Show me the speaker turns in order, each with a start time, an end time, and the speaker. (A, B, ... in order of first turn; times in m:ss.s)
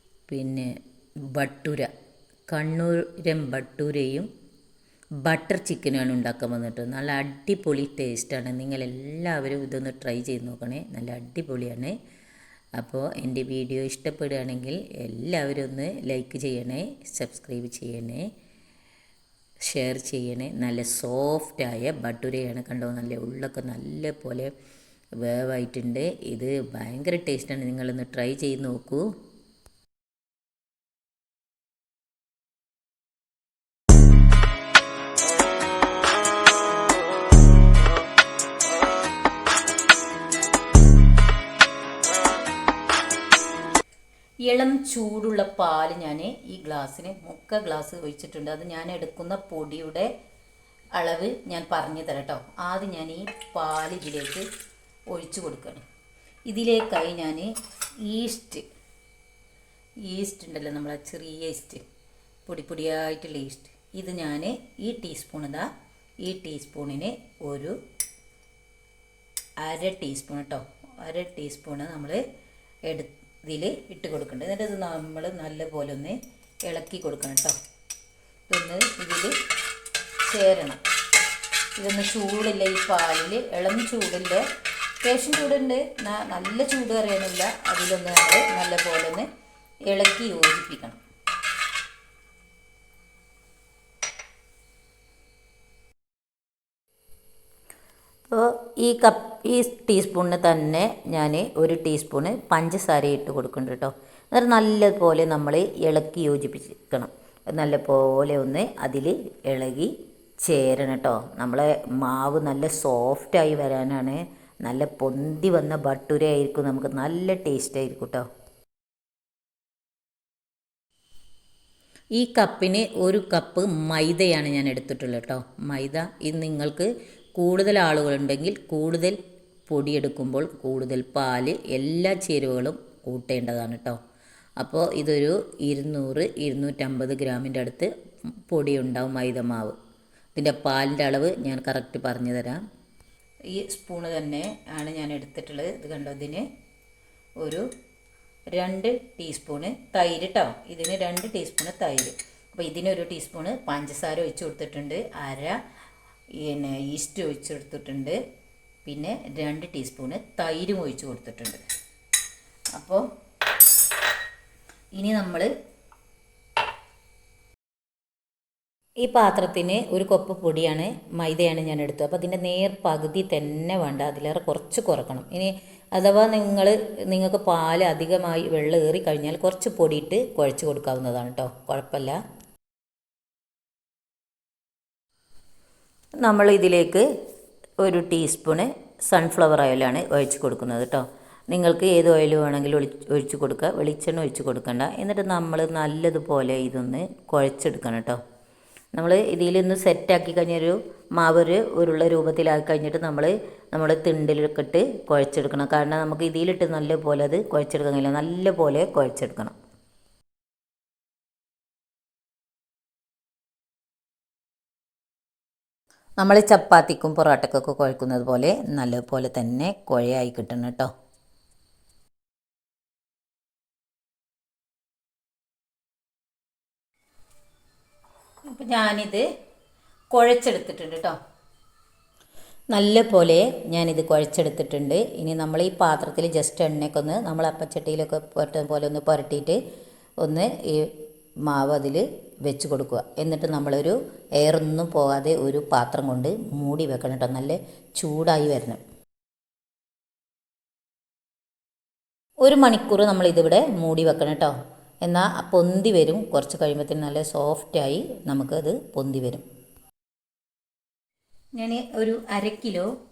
0:00.3-0:00.7 A
0:01.3-0:01.9 A
0:02.5-0:04.3 A
0:05.2-0:12.0 A
0:12.8-0:18.2 A
0:19.6-0:24.5 A
0:25.2-0:29.0 A
0:44.5-0:50.1 A
0:51.0-0:54.4 A
0:55.1-0:55.8 A
0:56.5-0:57.5 A
0:58.0-0:58.6 A
1:00.0-1:01.8 A
1:02.5-1:05.7 A
1:06.2-1:07.8 A
1:09.6-1:12.2 A
1:12.9-1:17.6 A
1:18.5-1:19.3 A
1:20.2-1:20.8 A
1:21.8-1:24.4 A
1:25.0-1:29.3 A
1:29.9-1:31.0 A
1:38.3-1:49.9 A
1:50.4-1:58.2 A
2:02.2-2:09.2 A
2:09.7-2:14.0 A
2:14.6-2:17.9 A
2:18.5-2:19.8 A
2:20.4-2:22.6 A
2:23.5-2:26.4 A
2:28.5-2:35.6 A
2:36.4-2:38.2 A
2:38.8-2:41.6 A
2:42.8-2:43.0 A
2:45.0-2:45.5 A
2:49.0-3:02.2 A
3:06.2-3:07.1 A
3:07.8-3:18.2 A
3:18.9-3:29.6 A
3:36.2-3:40.9 A
3:48.5-3:49.2 A
3:50.1-3:51.2 A
3:52.7-3:59.6 A
4:00.2-4:08.8 A
4:12.4-4:19.4 A
4:21.6-4:22.9 A